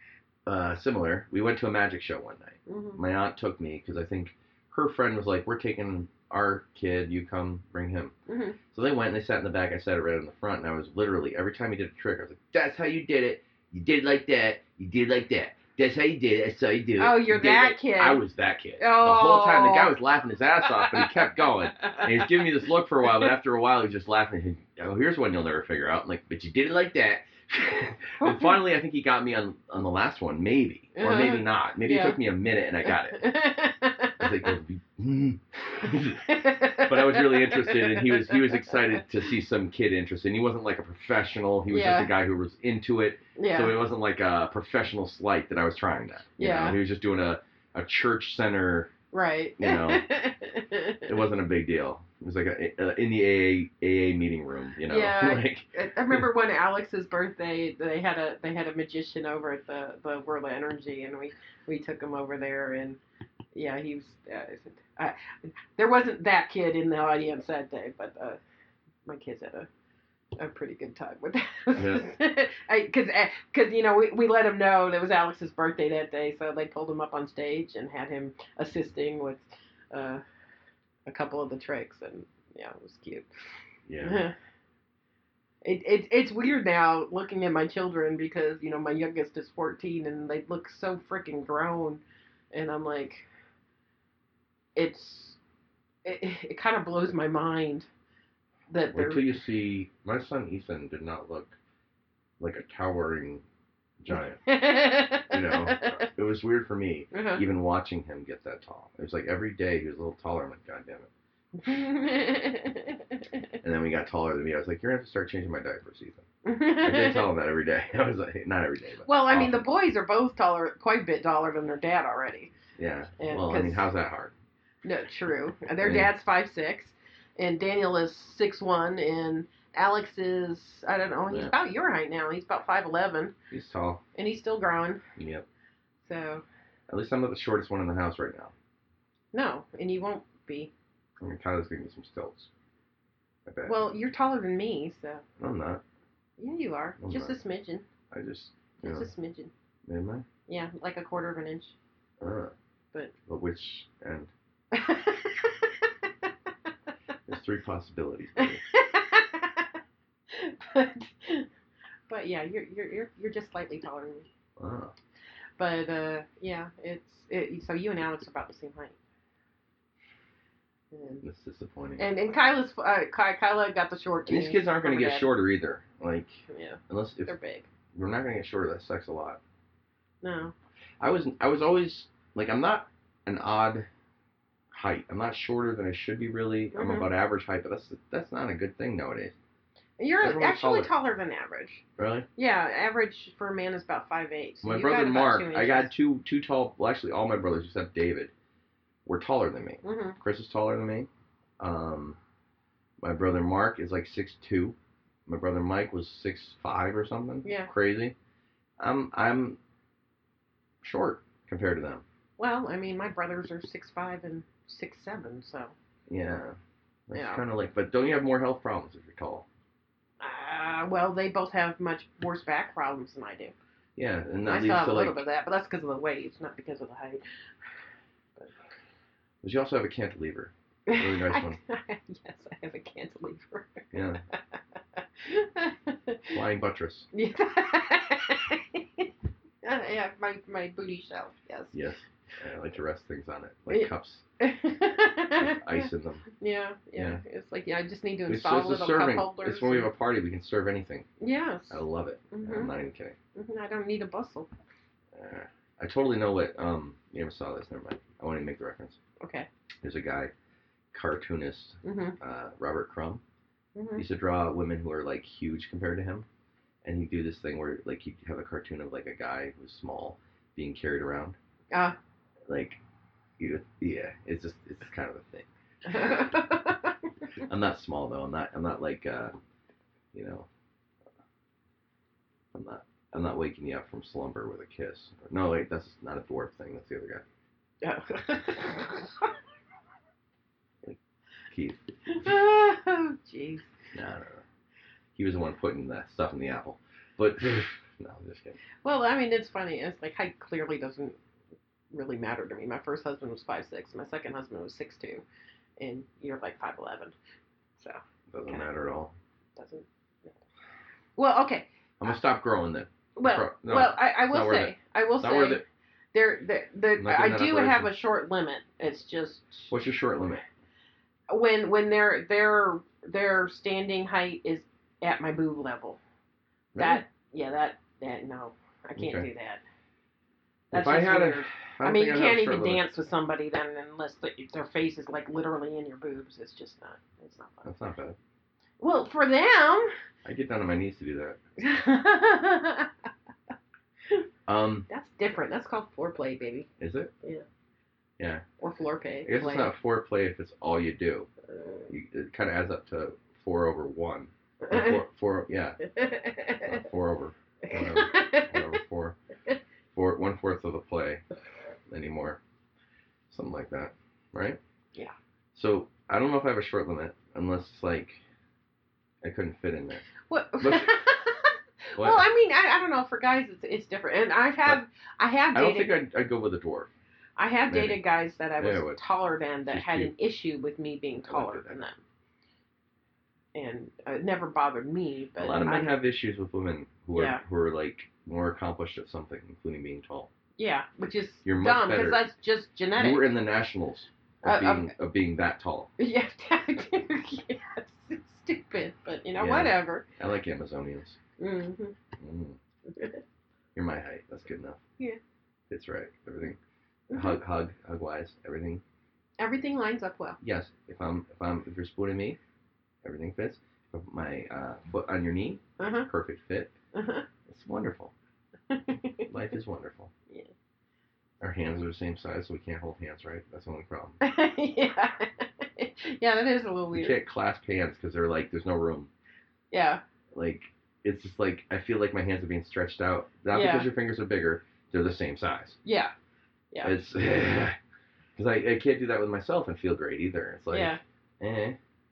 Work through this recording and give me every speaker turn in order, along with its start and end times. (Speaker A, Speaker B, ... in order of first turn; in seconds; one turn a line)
Speaker A: 0.5-8.1
Speaker B: 2.7-3.0
Speaker B: 8.3-8.6
Speaker A: 8.7-33.3
Speaker B: 17.0-18.2
Speaker B: 18.8-19.9
Speaker B: 20.7-22.4
Speaker B: 28.2-28.5
Speaker B: 31.0-32.2
Speaker B: 32.9-34.5
Speaker A: 34.2-48.9
Speaker B: 36.2-39.0
Speaker B: 41.7-42.1
Speaker B: 43.4-43.8
Speaker B: 46.4-46.8
Speaker B: 49.1-51.2
Speaker A: 49.6-50.1
Speaker A: 51.1-56.3
Speaker B: 54.9-63.0
Speaker B: 63.5-68.4
Speaker B: 69.1-69.7
Speaker B: 70.4-80.2
Speaker A: 71.8-72.1
Speaker B: 81.1-83.3
Speaker A: 83.9-84.2
Speaker B: 84.0-84.3
Speaker B: 85.6-93.3
Speaker B: 94.8-95.4
Speaker B: 96.0-97.9
Speaker B: 98.7-99.4
Speaker A: 98.9-101.6
Speaker A: 102.4-103.4
Speaker A: 104.0-111.1
Speaker B: 104.1-106.1
Speaker B: 107.1-107.4
Speaker B: 111.6-113.5
Speaker A: 113.6-116.3
Speaker B: 116.5-117.3
Speaker A: 116.8-119.7
Speaker B: 119.1-122.5
Speaker A: 122.8-124.3
Speaker B: 123.2-123.9
Speaker B: 124.8-133.3
Speaker A: 125.8-126.1
Speaker A: 133.5-134.0
Speaker B: 134.2-135.0
Speaker A: 135.2-135.5
Speaker B: 136.1-136.4
Speaker A: 136.9-138.5
Speaker B: 139.3-140.7
Speaker A: 141.2-142.5
Speaker A: 143.5-143.9
Speaker B: 143.7-145.2
Speaker A: 145.4-145.8
Speaker B: 146.4-147.9
Speaker A: 147.0-147.4
Speaker A: 148.1-149.1
Speaker B: 148.8-149.5
Speaker A: 149.9-150.3
Speaker B: 150.5-151.8
Speaker A: 152.2-152.5
Speaker A: 153.3-154.3
Speaker B: 154.7-156.3
Speaker A: 157.3-158.6
Speaker B: 158.4-159.8
Speaker B: 160.3-161.5
Speaker B: 162.1-164.3
Speaker A: 164.6-164.9
Speaker B: 165.6-169.0
Speaker B: 170.9-171.2
Speaker A: 171.2-172.0
Speaker B: 172.0-175.3
Speaker A: 174.3-177.3
Speaker B: 176.5-177.7
Speaker A: 177.9-179.4
Speaker B: 180.2-180.5
Speaker A: 181.0-183.9
Speaker A: 184.7-189.3
Speaker B: 186.7-187.1
Speaker B: 190.0-191.8
Speaker A: 190.2-190.9
Speaker A: 192.0-192.3
Speaker B: 192.4-195.9
Speaker A: 194.6-198.3
Speaker A: 199.1-201.1
Speaker B: 199.8-200.2
Speaker A: 201.6-202.2
Speaker A: 203.0-208.2
Speaker B: 207.4-207.7
Speaker A: 208.8-209.6
Speaker A: 210.8-212.0
Speaker B: 212.4-215.7
Speaker A: 216.1-216.6
Speaker A: 217.1-219.5
Speaker B: 217.1-217.4
Speaker B: 220.2-223.6
Speaker A: 224.0-225.2
Speaker B: 224.4-227.2
Speaker A: 229.4-231.6
Speaker B: 230.9-234.4
Speaker A: 233.9-234.2
Speaker B: 235.0-236.4
Speaker A: 236.3-237.1
Speaker B: 237.1-239.1
Speaker B: 239.6-241.8
Speaker A: 241.7-244.2
Speaker B: 243.7-249.9
Speaker A: 245.4-246.3
Speaker A: 247.0-247.2
Speaker A: 248.3-251.1
Speaker B: 251.2-251.8
Speaker A: 251.7-253.2
Speaker B: 252.3-252.7
Speaker B: 253.3-254.5
Speaker A: 255.1-259.0
Speaker B: 259.2-259.5
Speaker A: 259.8-260.3
Speaker A: 260.9-263.2
Speaker B: 261.8-262.2
Speaker B: 263.8-264.0
Speaker A: 264.0-266.3
Speaker A: 266.8-271.4
Speaker A: 272.5-272.8
Speaker A: 273.4-276.2
Speaker B: 275.9-277.1
Speaker A: 277.4-279.3
Speaker A: 280.1-280.5
Speaker A: 282.5-287.2
Speaker B: 287.8-289.3
Speaker A: 291.5-291.8
Speaker B: 292.1-293.7
Speaker A: 293.9-294.4
Speaker A: 295.2-298.6
Speaker B: 298.8-301.2
Speaker B: 301.9-305.2
Speaker B: 305.8-307.1
Speaker B: 307.8-308.7
Speaker A: 308.3-309.1
Speaker B: 309.6-310.3
Speaker B: 311.2-311.7
Speaker A: 312.0-315.6
Speaker B: 313.2-315.6
Speaker B: 316.1-319.7
Speaker A: 317.0-318.0
Speaker A: 319.7-320.4
Speaker B: 321.3-326.0
Speaker A: 326.7-327.0
Speaker B: 326.8-329.6
Speaker A: 329.0-329.3
Speaker A: 330.7-332.9
Speaker B: 330.7-337.7
Speaker A: 337.6-338.2
Speaker B: 338.8-339.9
Speaker A: 340.2-341.4
Speaker B: 341.6-343.1
Speaker A: 344.5-344.9
Speaker B: 344.9-346.7
Speaker A: 346.8-347.1
Speaker A: 348.2-348.4
Speaker B: 348.6-349.7
Speaker A: 349.2-351.3
Speaker B: 351.5-351.9
Speaker A: 351.9-355.8
Speaker B: 354.6-355.0
Speaker B: 355.8-356.8
Speaker A: 356.6-359.2
Speaker B: 357.7-358.8
Speaker A: 359.9-361.2
Speaker A: 361.9-362.4
Speaker A: 363.3-364.6
Speaker A: 365.5-368.2
Speaker A: 369.2-370.1
Speaker B: 370.3-375.9
Speaker A: 370.6-371.0
Speaker A: 372.0-372.3
Speaker A: 375.6-376.9
Speaker B: 377.4-382.0
Speaker A: 377.7-378.0
Speaker A: 378.6-379.0
Speaker A: 379.7-380.1
Speaker A: 381.3-381.8
Speaker B: 383.6-385.9
Speaker A: 385.4-390.3
Speaker B: 387.1-387.4
Speaker B: 390.6-393.4
Speaker A: 391.4-392.2
Speaker A: 392.9-395.9
Speaker B: 394.4-394.9
Speaker B: 396.0-400.0
Speaker A: 399.4-401.2
Speaker B: 401.4-402.0
Speaker A: 402.2-402.6
Speaker B: 402.9-403.2
Speaker A: 403.8-404.8
Speaker A: 405.7-406.6
Speaker B: 407.1-407.4
Speaker A: 407.1-408.8
Speaker B: 409.4-410.4
Speaker A: 410.4-412.4
Speaker A: 413.0-416.7
Speaker B: 415.8-416.1
Speaker B: 416.9-417.3
Speaker A: 417.5-418.1
Speaker B: 418.7-419.3
Speaker A: 419.2-420.1
Speaker A: 421.4-424.2
Speaker B: 424.2-427.2
Speaker A: 426.9-429.1
Speaker B: 429.7-430.0
Speaker A: 430.3-435.8
Speaker B: 433.5-433.9
Speaker B: 435.9-436.1
Speaker A: 436.8-437.8
Speaker A: 438.4-441.8
Speaker B: 440.7-441.0